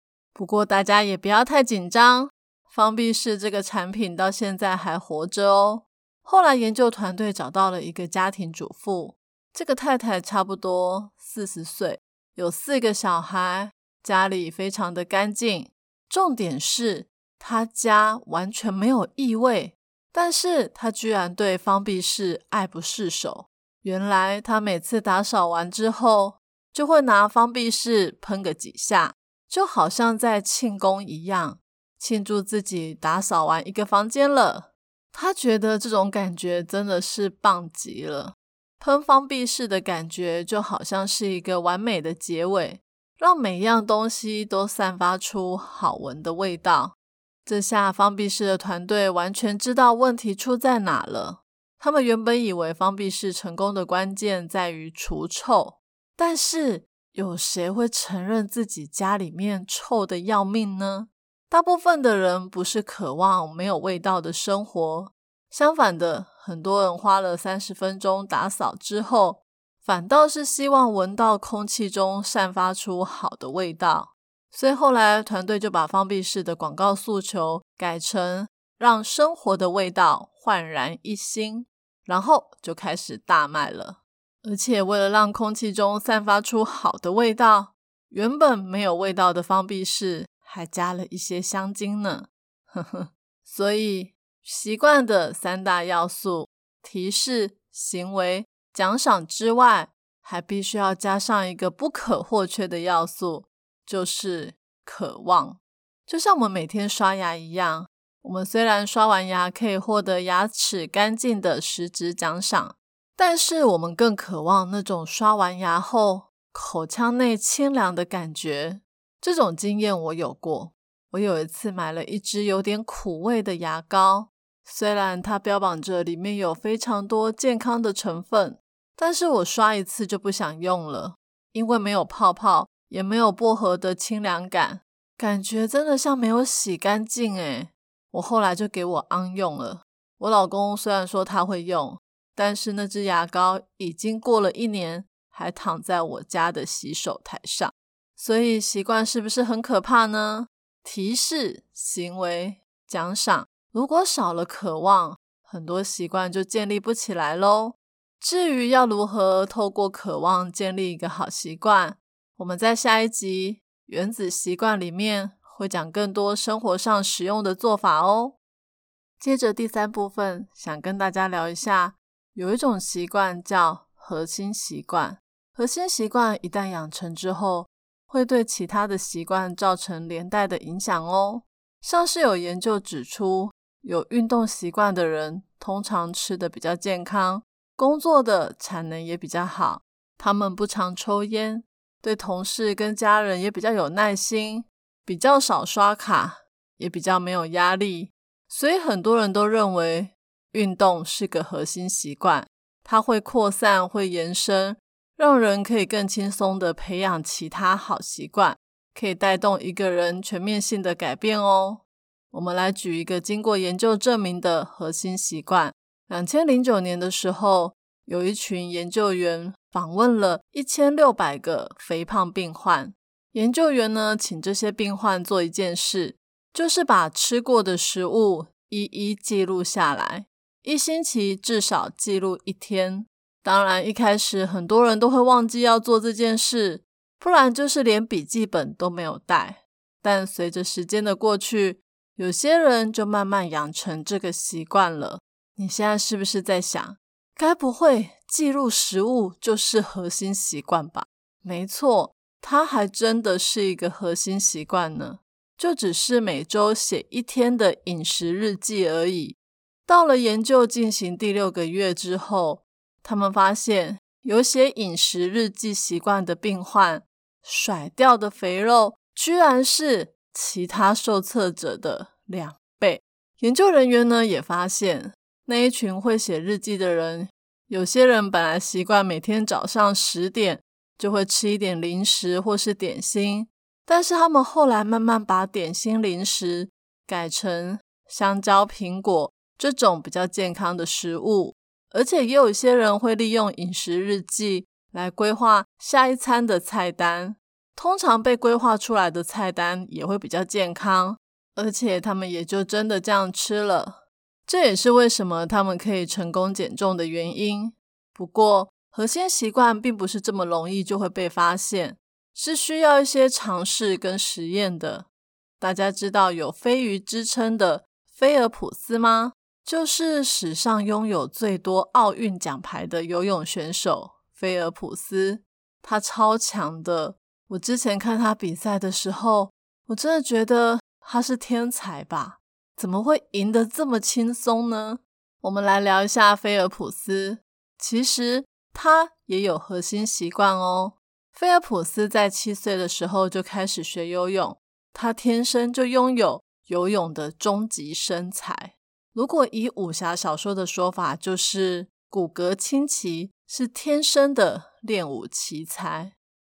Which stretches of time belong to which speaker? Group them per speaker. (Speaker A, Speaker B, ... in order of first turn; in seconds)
Speaker A: 0.3-168.4, 169.2-259.4, 259.9-315.1, 315.6-356.1